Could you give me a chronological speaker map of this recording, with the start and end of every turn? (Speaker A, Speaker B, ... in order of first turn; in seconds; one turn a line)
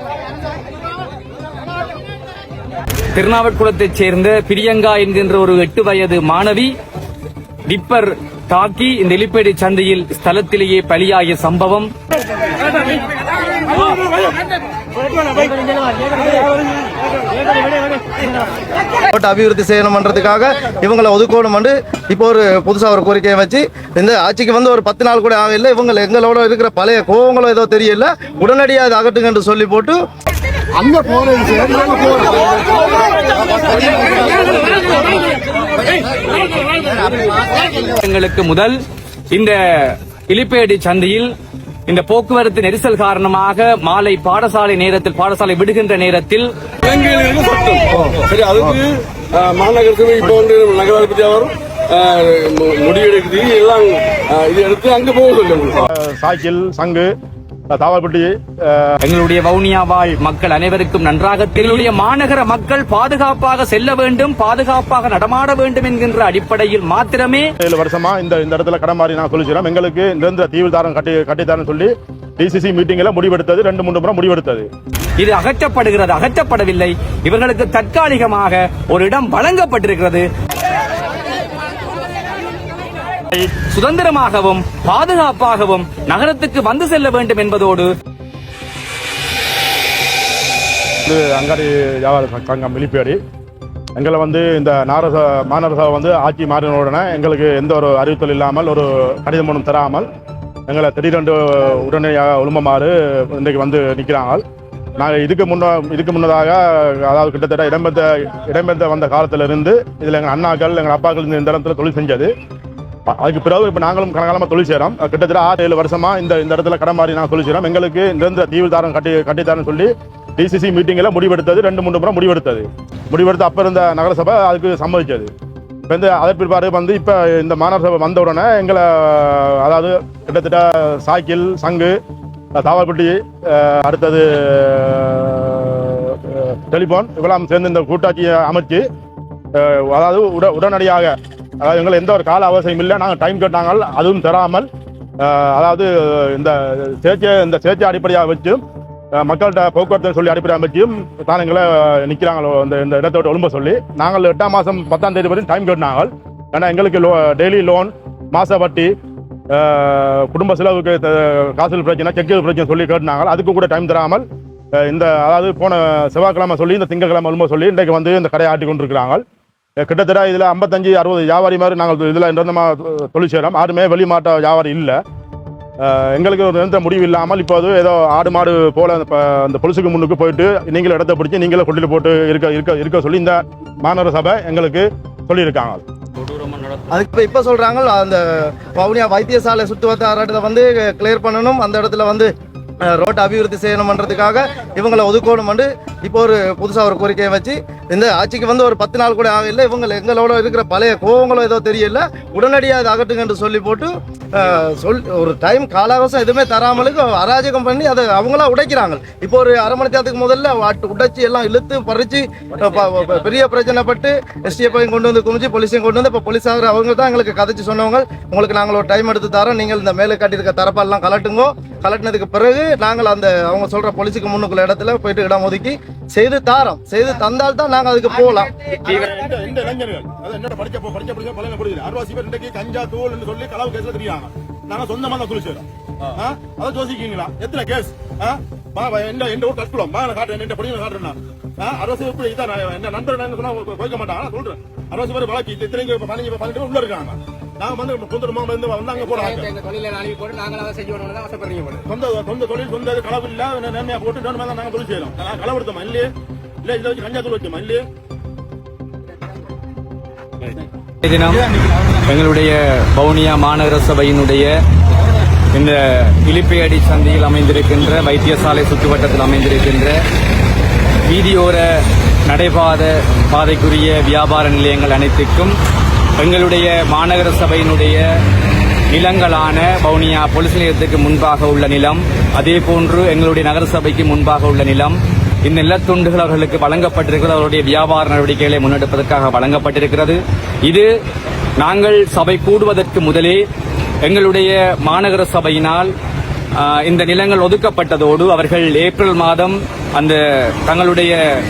Speaker A: 3.1-6.7
Speaker A: 7.7-11.9
Speaker B: 19.1-30.0
Speaker C: 30.8-32.5
Speaker C: 33.4-38.0
Speaker A: 37.9-38.8
Speaker A: 39.3-41.3
Speaker A: 41.9-46.5
Speaker D: 46.8-55.9
Speaker E: 55.9-57.1
Speaker E: 57.7-59.0
Speaker A: 59.0-67.5
Speaker E: 67.6-74.7
Speaker A: 75.2-80.3
Speaker A: 83.3-87.9
Speaker E: 91.1-93.2
Speaker E: 94.0-100.1
Speaker E: 100.7-104.4
Speaker E: 105.0-112.3
Speaker E: 113.1-125.3
Speaker E: 125.9-132.0
Speaker E: 132.6-138.8
Speaker E: 139.6-144.7
Speaker E: 145.2-148.6
Speaker E: 149.2-158.9
Speaker E: 159.5-164.2
Speaker E: 164.8-169.2
Speaker E: 169.8-175.0
Speaker E: 175.8-185.8
Speaker A: 186.2-186.8
Speaker B: 186.9-192.3
Speaker B: 192.8-228.7
Speaker E: 228.8-249.5
Speaker C: 249.0-251.8
Speaker E: 251.9-256.1
Speaker E: 256.6-257.9
Speaker A: 261.0-261.4
Speaker A: 262.1-264.5
Speaker A: 265.5-270.0
Speaker A: 271.0-275.6
Speaker A: 276.2-278.1
Speaker A: 278.9-290.9
Speaker A: 291.6-293.4
Speaker A: 294.1-295.9
Speaker A: 296.6-301.2